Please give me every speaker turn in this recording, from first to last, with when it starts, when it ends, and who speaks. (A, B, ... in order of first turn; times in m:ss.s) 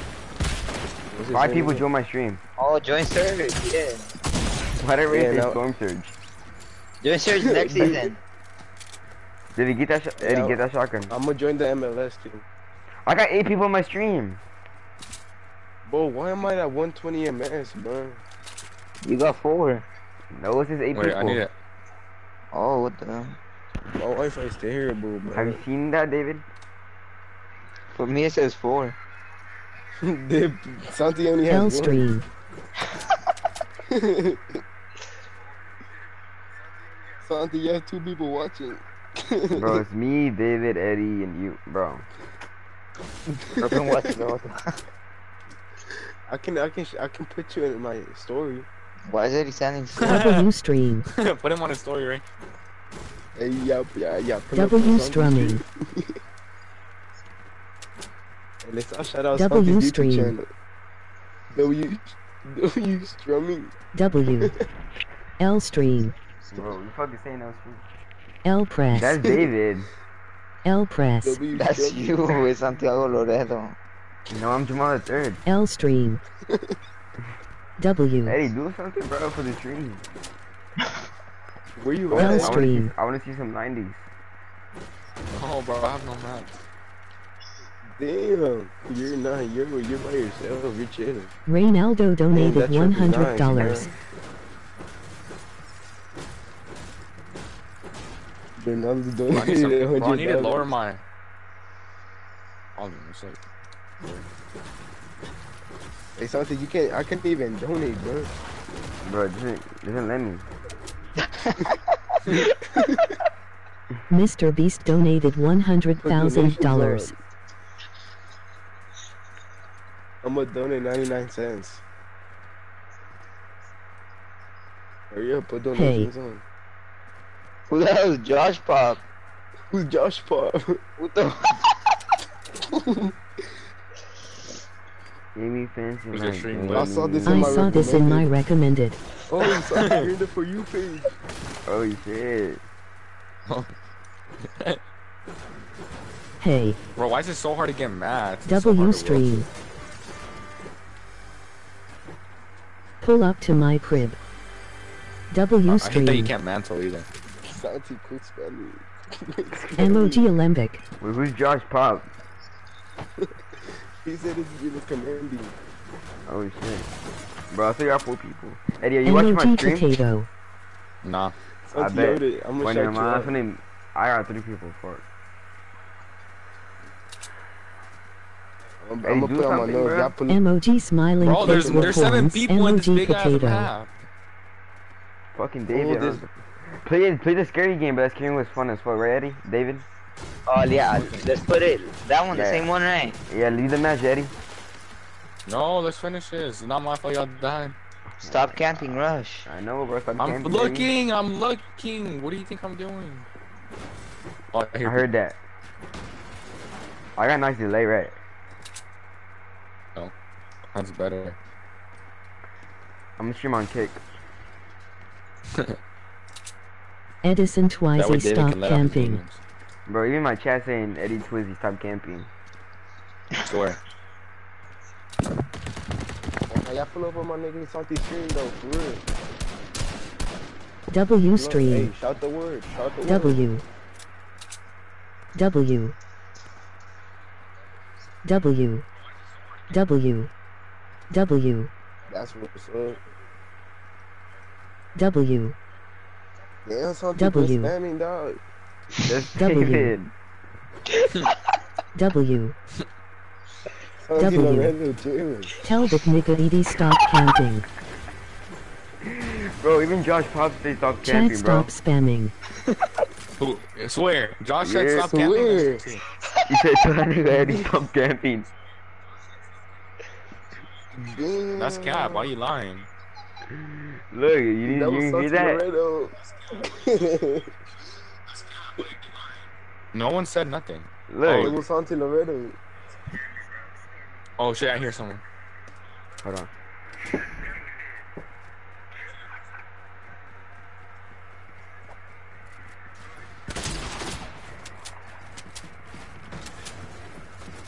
0:01.1-0:01.8 A
0:01.3-0:02.4 B
0:02.6-0:04.1 C
0:04.8-0:06.2 B
0:05.1-0:05.6 A
0:07.0-0:08.2 C
0:07.4-0:08.1 A
0:09.6-0:11.1 B
0:10.2-0:10.6 A
0:11.1-0:12.4 A
0:13.1-0:14.4 B
0:15.9-0:18.2 A
0:19.0-0:19.8 C
0:20.3-0:21.4 B
0:20.9-0:21.5 D
0:22.5-0:23.4 C
0:24.0-0:25.6 A
0:25.3-0:26.4 B
0:27.9-0:29.0 C
0:30.0-0:32.1 A
0:31.5-0:32.3 E
0:33.9-0:34.6 A
0:37.2-0:39.8 A
0:39.5-0:42.1 B
0:43.5-0:43.8 A
0:43.6-0:44.8 C
0:46.3-0:48.7 A
0:49.1-0:50.2 C
0:50.0-0:50.5 D
0:50.0-0:51.1 E
0:51.1-0:52.2 D
0:53.4-0:56.1 A
0:54.5-0:55.6 E
0:58.6-1:00.5 A
0:59.3-1:00.4 E
1:01.5-1:03.7 A
1:03.9-1:04.6 E
1:05.4-1:06.2 E
1:06.5-1:07.8 B
1:08.4-1:09.2 E
1:08.9-1:09.9 B
1:10.6-1:11.4 E
1:11.2-1:12.4 A
1:11.5-1:13.8 C
1:14.3-1:15.4 B
1:15.5-1:16.2 E
1:16.5-1:16.8 A
1:17.8-1:18.4 E
1:18.2-1:20.0 B
1:21.8-1:22.6 A
1:22.1-1:24.1 B
1:22.2-1:22.9 E
1:25.3-1:26.6 D
1:28.0-1:31.3 A
1:31.5-1:33.9 E
1:32.3-1:33.9 A
1:38.6-1:40.7 A
1:39.3-1:41.0 D
1:42.8-1:43.4 D
1:44.0-1:44.3 D
1:46.2-1:48.3 A
1:49.0-1:50.5 B
1:51.2-1:52.4 C
1:52.8-1:53.2 A
1:54.1-1:57.1 E
1:56.0-1:57.2 A
2:00.2-2:01.8 A
2:05.1-2:06.4 A
2:05.8-2:06.1 E
2:07.7-2:09.0 C
2:09.7-2:10.8 A
2:11.0-2:11.8 C
2:12.6-2:13.1 A
2:15.4-2:17.7 B
2:16.1-2:17.0 D
2:16.7-2:18.3 A
2:17.3-2:19.0 E
2:19.3-2:21.1 A
2:21.7-2:22.6 B
2:24.4-2:24.8 D
2:26.4-2:26.8 E
2:27.0-2:29.4 D
2:28.5-2:29.5 E
2:33.0-2:34.2 E
2:35.3-2:36.3 E
2:35.7-2:37.1 D
2:37.5-2:40.2 A
2:39.5-2:39.9 B
2:39.8-2:40.8 E
2:41.0-2:42.1 B
2:44.0-2:45.6 A
2:46.3-2:46.9 B
2:47.5-2:50.0 B
2:49.0-2:50.3 E
2:51.0-2:51.4 D
2:51.7-2:53.3 A
2:51.8-2:55.0 B
2:58.8-3:00.4 A
2:59.0-3:00.2 B
3:00.3-3:03.7 E
3:01.2-3:03.9 D
3:01.4-3:02.0 A
3:05.3-3:09.9 B
3:05.7-3:06.2 A
3:10.5-3:13.2 C
3:12.3-3:12.7 B
3:13.3-3:14.3 B
3:15.5-3:17.8 D
3:18.2-3:20.9 B
3:18.3-3:19.5 C
3:20.2-3:23.3 D
3:24.5-3:25.1 D
3:24.8-3:25.4 B
3:27.2-3:28.2 B
3:30.7-3:31.4 D
3:33.2-3:34.0 B
3:37.2-3:39.2 E
3:38.0-3:39.4 D
3:39.9-3:42.3 B
3:43.5-3:43.8 D
3:46.5-3:49.1 A
3:50.9-3:51.9 E
3:51.4-3:53.5 A
3:53.0-3:53.6 E
3:55.4-3:56.0 E
3:58.2-3:58.9 E
3:59.7-4:00.3 E
4:01.1-4:01.7 E
4:02.1-4:03.0 A
4:05.0-4:05.6 E
4:06.7-4:08.4 A
4:07.2-4:07.7 E
4:09.0-4:10.1 B
4:09.4-4:09.9 E
4:10.9-4:11.3 C
4:12.0-4:12.6 E
4:14.0-4:15.5 A
4:14.2-4:14.7 E
4:15.6-4:17.7 E
4:19.0-4:21.7 B
4:21.0-4:22.3 E
4:23.4-4:26.0 D
4:24.6-4:25.2 B
4:25.0-4:25.8 A
4:26.4-4:28.5 B
4:31.0-4:32.3 A
4:31.5-4:32.9 D
4:33.5-4:35.6 B
4:34.6-4:37.5 A
4:39.9-4:41.6 D
4:41.1-4:41.6 B
4:41.4-4:42.6 A
4:44.4-4:45.2 D
4:46.2-4:46.5 B